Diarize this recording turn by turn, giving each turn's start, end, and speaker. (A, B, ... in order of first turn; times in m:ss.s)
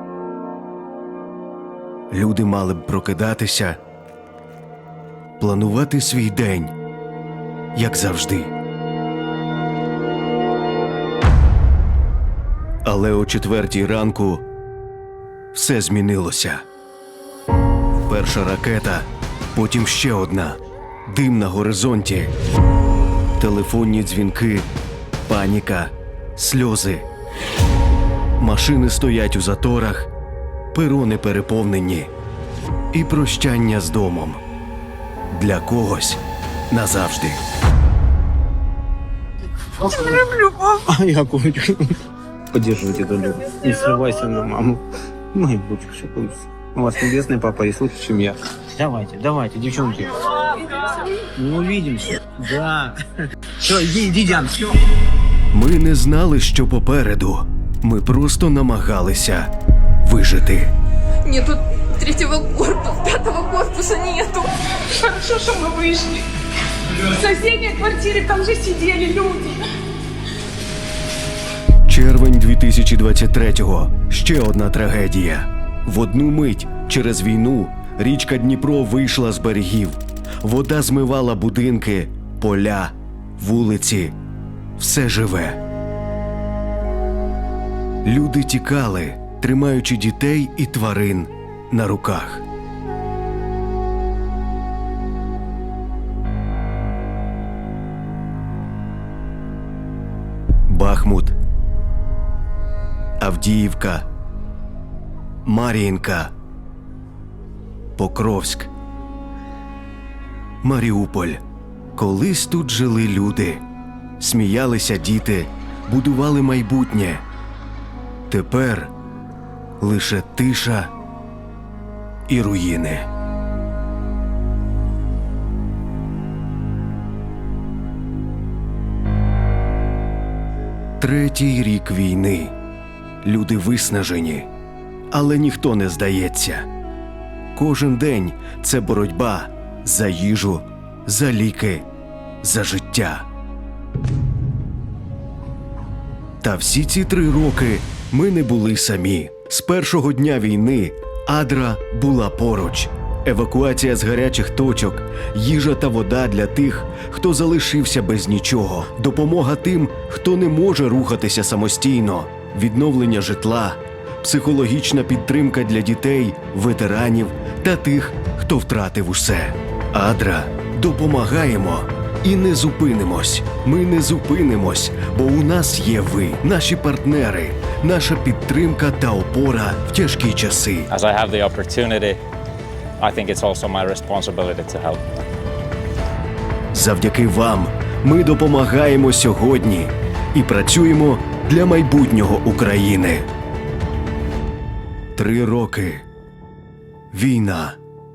0:02.1-0:03.8 A
0:05.4-0:06.7 A
0:07.7-0:08.5 A
0:12.8-0:14.4 A
0:15.5-0:16.6 A
0:18.0-0:22.3 A
0:23.4-0:24.7 A
0:25.3-0:27.0 A
0:28.4-0:30.1 A
0:30.7-0:32.1 A
0:32.9-0:34.4 A
0:35.3-0:37.4 A
0:39.8-0:42.0 B
0:40.3-0:40.7 C
0:42.5-0:54.7 B
0:55.5-0:59.5 A
1:00.0-1:00.7 A
1:01.3-1:04.4 D
1:04.7-1:06.3 C
1:07.0-1:09.7 C
1:11.8-1:24.2 A
1:24.8-1:25.6 A
1:28.0-1:32.4 A
1:40.7-1:41.4 A
1:43.2-1:44.0 A
1:45.4-1:46.3 A
1:48.0-1:48.7 A
1:50.6-1:51.4 A
1:52.0-1:53.6 A
1:54.2-1:57.2 A
1:58.3-1:58.9 A
1:59.8-2:00.9 A
2:02.3-2:03.1 A
2:11.0-2:12.5 A
2:13.2-2:14.5 A
2:15.1-2:16.7 A
2:17.5-2:21.8 A
2:22.4-2:23.2 A
2:26.4-3:00.9 A
3:00.9-3:02.2 E
3:03.0-3:05.0 E
3:06.7-3:13.3 A
3:15.2-3:16.0 A
3:17.1-3:17.8 A